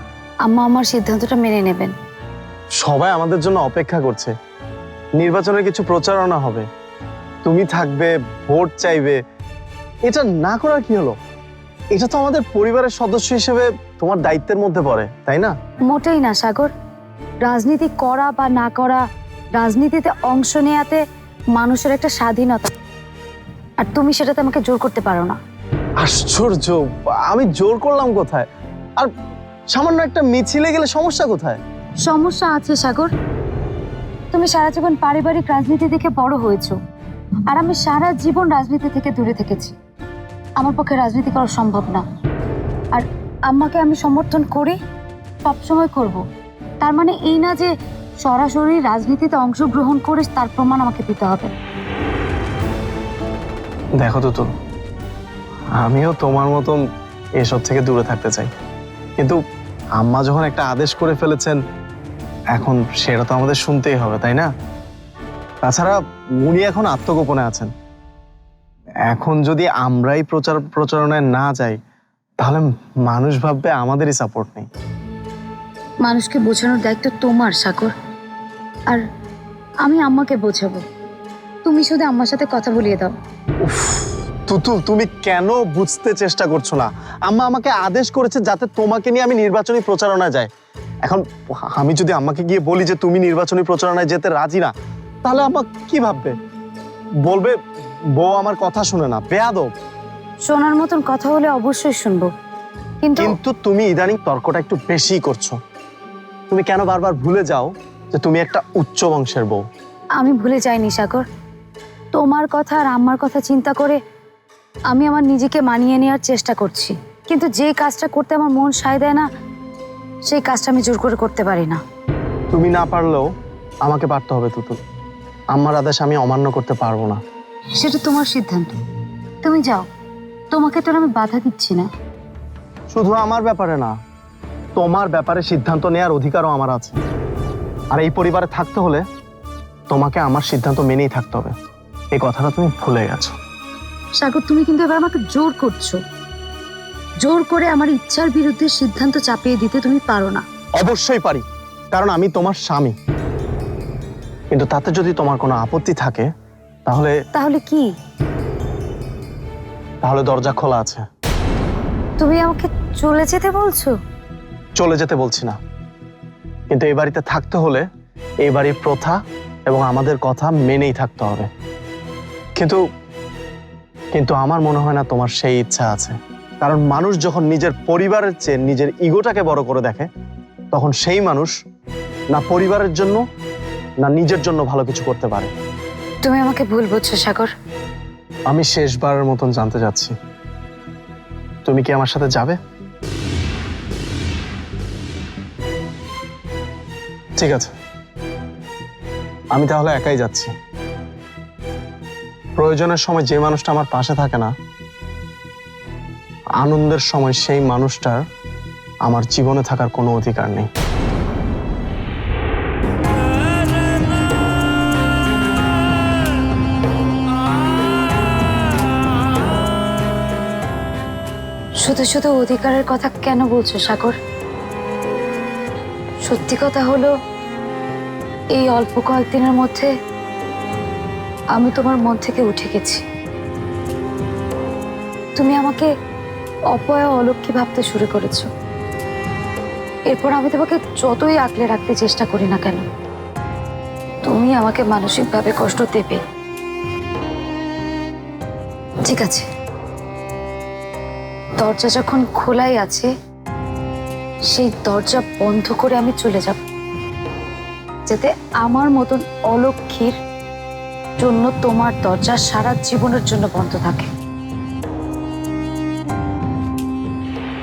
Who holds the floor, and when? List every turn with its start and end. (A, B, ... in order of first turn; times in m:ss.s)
0:00.5-0:02.0 A
0:02.8-0:04.3 B
0:05.2-0:06.6 B
0:07.4-0:09.2 B
0:10.1-0:11.2 B
0:11.9-0:15.5 B
0:15.9-0:16.7 A
0:17.4-0:19.0 A
0:19.6-0:21.0 A
0:21.6-0:22.7 A
0:23.8-0:25.4 A
0:26.0-0:28.5 B
0:29.7-0:31.6 B
0:32.0-0:33.1 A
0:34.3-0:36.8 A
0:37.5-0:39.8 A
0:40.6-0:42.0 A
0:42.9-0:44.8 A
0:45.4-0:46.2 A
0:46.8-0:51.5 A
0:54.0-0:54.5 B
0:55.8-0:56.8 B
0:57.4-0:58.5 B
1:00.0-1:01.6 B
1:02.5-1:04.5 B
1:05.6-1:07.7 B
1:09.1-1:11.8 B
1:12.4-1:14.7 B
1:16.0-1:17.9 A
1:19.8-1:20.8 A
1:21.6-1:23.1 A
1:23.6-1:30.5 B
1:31.0-1:34.7 B
1:35.2-1:36.3 B
1:37.3-1:37.6 B
1:38.2-1:39.7 B
1:40.5-1:42.3 A
1:43.0-1:43.4 A
1:43.2-1:45.6 B
1:46.5-1:49.6 B
1:50.2-1:51.2 A
1:52.1-1:54.0 A
1:54.9-1:59.3 A
2:00.3-2:01.8 A
2:02.5-2:03.3 B
2:03.8-2:04.8 B
2:05.5-2:07.2 B
2:07.8-2:08.8 A
2:09.4-2:09.9 A
2:10.5-2:11.9 A
2:12.9-2:13.9 B
2:14.8-2:17.0 B
2:17.9-2:19.0 B
2:19.9-2:21.5 B
2:22.1-2:23.4 B
2:24.2-2:26.0 A
2:27.2-2:30.4 A
2:30.8-2:33.0 B
2:34.5-2:36.3 B
2:36.9-2:37.1 B
2:37.4-2:37.9 A
2:40.0-2:41.0 B
2:42.2-2:44.0 A
2:44.8-2:45.6 B
2:46.7-2:47.8 B
2:48.4-2:51.5 B
2:54.1-3:00.1 B
3:00.7-3:01.5 B
3:02.3-3:03.2 B
3:04.0-3:05.5 B
3:06.2-3:07.5 A
3:08.5-3:10.1 B
3:11.6-3:12.6 B
3:17.4-3:17.7 B
3:19.5-3:20.5 B
3:22.6-3:24.5 B
3:26.6-3:28.2 B
3:29.1-3:30.7 B
3:41.8-3:44.2 A
3:46.2-3:47.1 A
3:48.6-3:49.9 A
3:51.5-3:53.0 A
3:55.4-3:55.9 A
3:56.7-3:58.5 A
4:00.1-4:02.9 A
4:04.2-4:06.2 A
4:09.0-4:09.5 A
4:11.6-4:13.1 A
4:14.5-4:16.6 A
4:18.1-4:20.2 A
4:21.2-4:24.1 A